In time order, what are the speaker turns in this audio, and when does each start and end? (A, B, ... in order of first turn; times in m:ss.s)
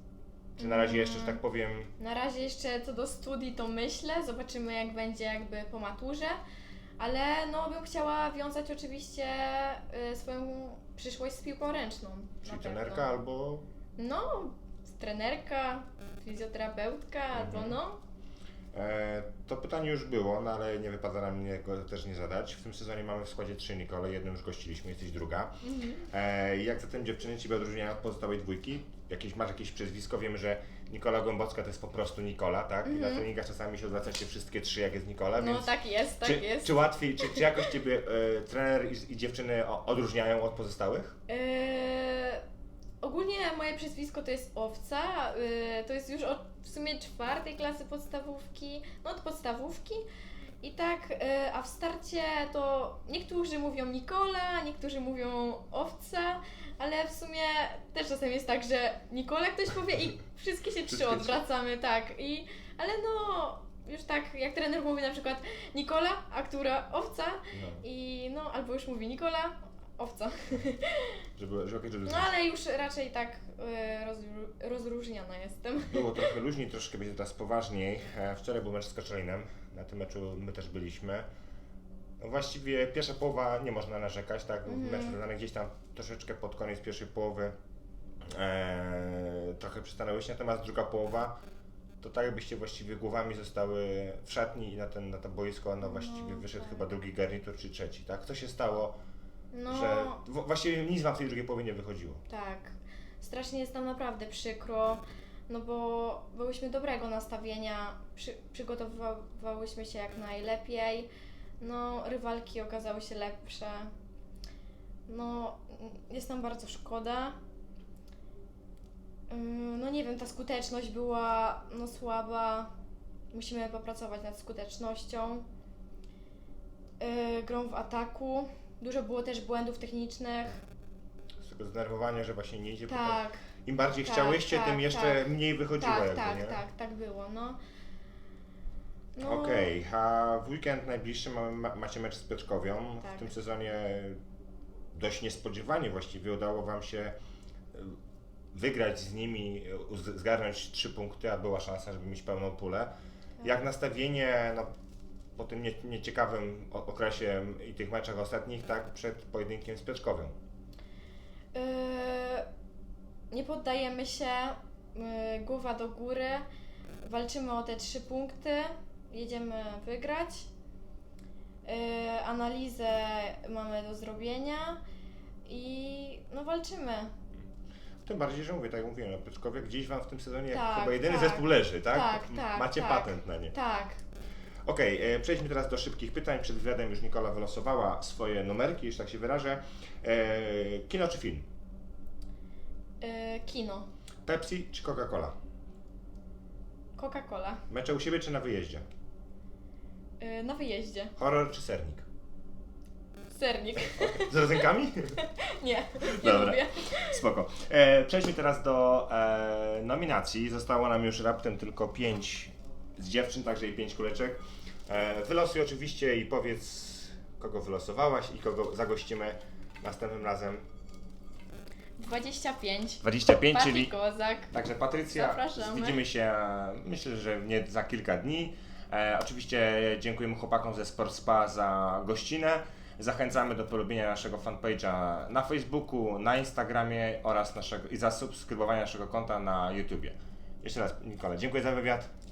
0:00.6-0:01.9 A
0:00.6-0:01.4 B
0:02.0-0:06.4 B
0:07.0-0:13.1 B
0:12.4-0:13.6 A
0:14.0-0:18.0 B
0:17.3-0:17.8 A
0:18.7-0:25.6 A
0:25.6-0:26.0 B
0:26.1-0:35.7 A
0:32.8-0:33.2 B
0:35.4-0:37.4 B
0:36.2-0:41.2 A
0:41.3-0:42.4 B
0:43.0-0:50.0 B
0:50.6-1:11.2 B
1:00.9-1:01.4 A
1:07.5-1:07.8 A
1:11.4-1:12.3 A
1:12.0-1:16.3 B
1:15.8-1:21.3 A
1:22.2-1:27.5 A
1:24.6-1:25.2 B
1:28.2-1:31.3 A
1:32.0-1:38.9 A
1:35.8-1:36.9 B
1:39.5-1:40.2 B
1:39.7-1:42.2 A
1:42.3-1:51.1 B
1:51.6-1:53.9 B
1:55.1-1:57.4 B
1:59.3-2:02.7 B
2:03.3-2:05.4 B
2:07.0-2:10.6 B
2:11.4-2:16.6 A
2:12.9-2:13.4 B
2:14.0-2:17.6 B
2:19.2-2:19.8 B
2:19.2-2:24.2 A
2:23.0-2:23.3 B
2:24.9-2:27.1 A
2:27.7-2:28.0 A
2:28.5-2:32.9 A
2:33.4-2:34.7 A
2:35.4-2:40.3 A
2:41.5-2:42.4 B
2:43.3-2:46.4 B
2:47.0-2:50.5 B
2:51.6-2:54.8 B
2:55.4-2:57.1 B
2:58.0-3:03.5 A
3:00.5-3:04.0 B
3:04.6-3:11.4 A
3:13.0-3:13.9 B
3:14.2-3:15.3 A
3:17.0-3:17.6 B
3:17.7-3:18.8 A
3:20.2-3:21.1 B
3:21.2-3:22.0 A
3:23.3-3:24.6 B
3:24.0-3:25.2 A
3:25.2-3:27.2 B
3:26.0-3:40.6 A
3:42.0-3:44.5 B
3:43.0-3:43.9 A
3:44.5-4:02.1 A
3:45.0-3:46.0 B